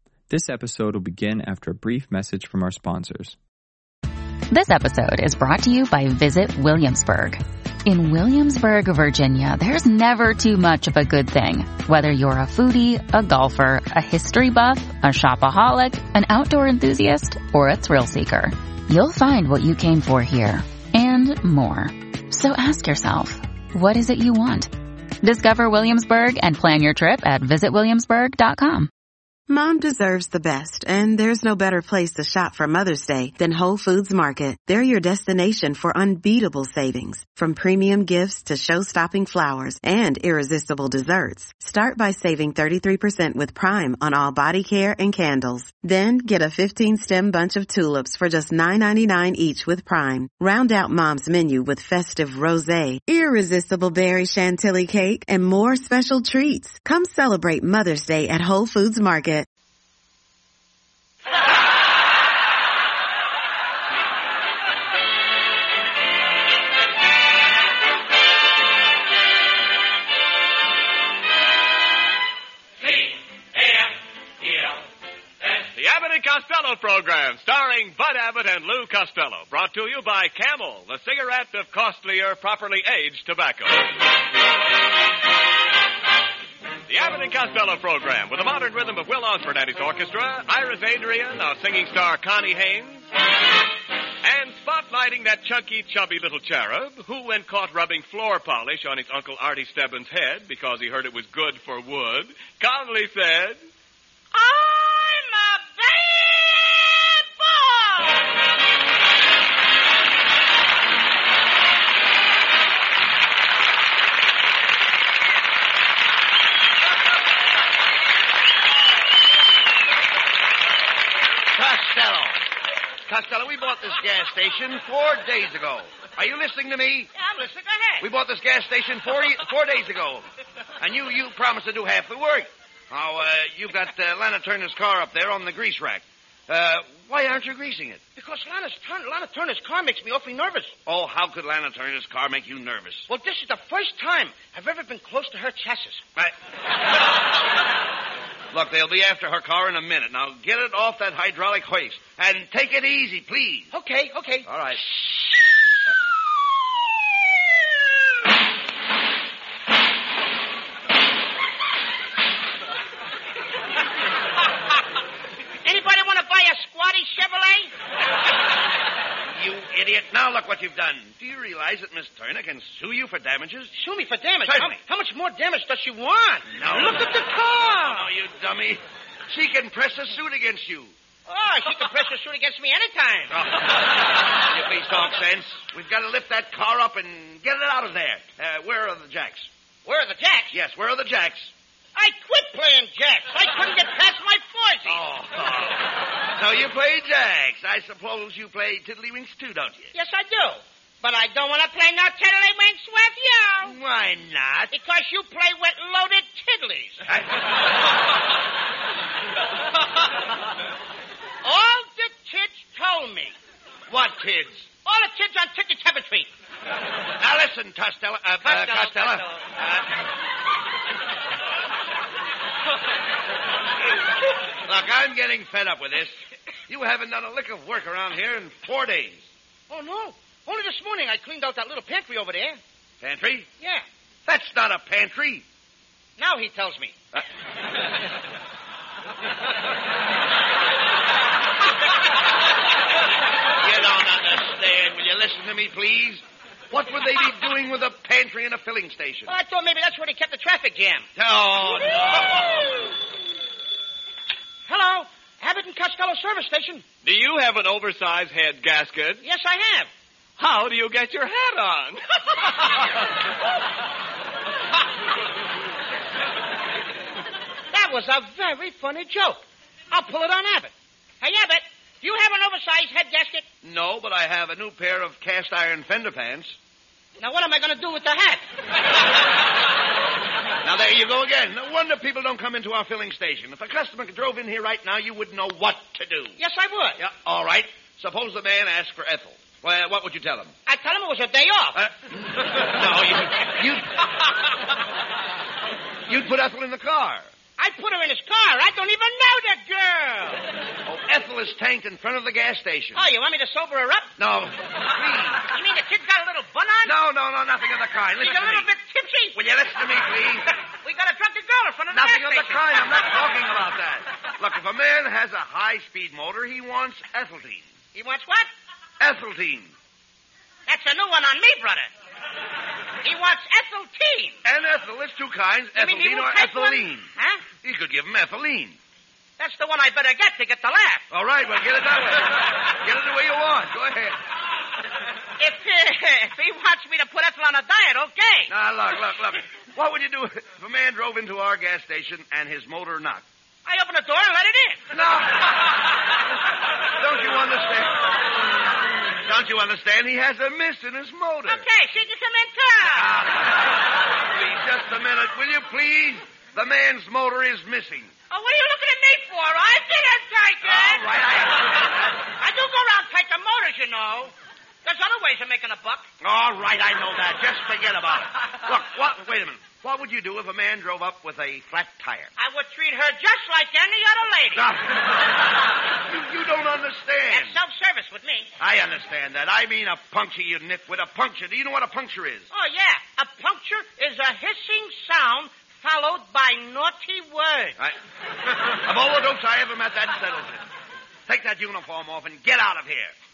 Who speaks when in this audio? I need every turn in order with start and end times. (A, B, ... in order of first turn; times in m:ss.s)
0:00.3-0:03.4 A
0:04.5-0:28.9 B
0:29.5-0:59.4 C
1:15.6-1:23.9 D
1:26.9-1:33.1 D
1:34.2-1:43.6 D
1:44.3-1:48.3 E
2:01.5-2:02.4 F
2:03.0-2:07.1 F
2:07.1-2:08.1 E
2:08.0-2:10.2 F
2:10.8-2:18.0 F
2:18.2-2:20.7 E
2:20.8-2:23.1 F
2:23.1-2:26.0 E
2:28.5-2:33.7 F
2:33.7-2:34.5 E
2:34.4-2:34.9 F
2:45.6-2:47.7 E
2:49.4-2:53.7 F
2:53.7-2:58.1 E
2:54.4-2:54.8 F
2:56.5-3:00.9 F
3:01.2-3:03.3 E
3:03.3-3:09.5 F
3:09.8-3:10.5 E
3:10.5-3:11.5 F
3:12.0-3:15.0 E
3:14.8-3:19.9 F
3:19.9-3:23.7 E
3:23.6-3:24.7 F
3:24.7-3:27.0 E
3:27.0-3:27.5 F
3:31.4-3:33.3 E
3:33.9-3:34.7 F
3:34.8-3:36.3 E
3:37.2-3:39.9 F
3:38.4-3:39.4 E
3:44.6-3:46.2 F
3:46.7-3:49.2 F
3:49.7-3:52.6 E
3:53.0-3:53.5 F
3:53.6-3:53.8 E
3:54.2-3:55.4 F
3:56.2-3:56.9 E
4:03.6-4:09.3 F
4:09.2-4:11.0 E
4:11.2-4:12.9 F
4:12.1-4:12.5 E
4:14.7-4:16.8 E
4:17.0-4:19.2 D
4:19.2-4:19.9 E
4:20.4-4:22.0 D
4:27.7-4:33.4 E
4:33.6-4:36.5 F
4:37.2-4:38.4 E
4:40.6-4:46.4 F
4:46.4-4:47.0 E
4:47.0-4:50.5 F
4:50.6-4:51.8 E
4:51.7-4:54.0 F
4:56.1-4:57.3 F
4:57.6-5:00.4 E
5:00.8-5:03.0 F
5:03.0-5:04.1 E
5:04.2-5:05.4 F
5:05.5-5:06.9 E
5:06.8-5:08.7 F
5:08.2-5:09.4 E
5:09.3-5:10.6 F
5:10.8-5:12.7 E
5:11.9-5:17.6 F
5:17.9-5:18.5 E
5:19.0-5:19.7 F
5:20.7-5:21.9 E
5:23.0-5:24.4 E
5:24.4-5:27.1 F
5:25.8-5:27.4 E
5:27.6-5:28.8 F
5:29.4-5:31.0 E
5:31.1-5:34.2 F
5:35.4-5:38.5 E
5:38.5-5:43.2 F
5:43.6-5:44.8 E
5:44.9-5:45.7 F
5:47.0-5:48.1 F
5:49.2-5:51.6 F
5:51.5-5:53.1 E
5:52.9-5:58.1 F
5:58.3-6:01.1 E
6:00.6-6:02.2 F
6:02.4-6:04.3 E
6:04.8-6:06.0 E
6:06.2-6:12.3 F
6:12.4-6:14.7 E
6:14.6-6:15.3 F
6:16.0-6:17.6 F
6:17.3-6:18.5 E
6:18.6-6:22.5 F
6:22.5-6:27.8 E
6:28.7-6:30.6 F
6:31.3-6:33.1 F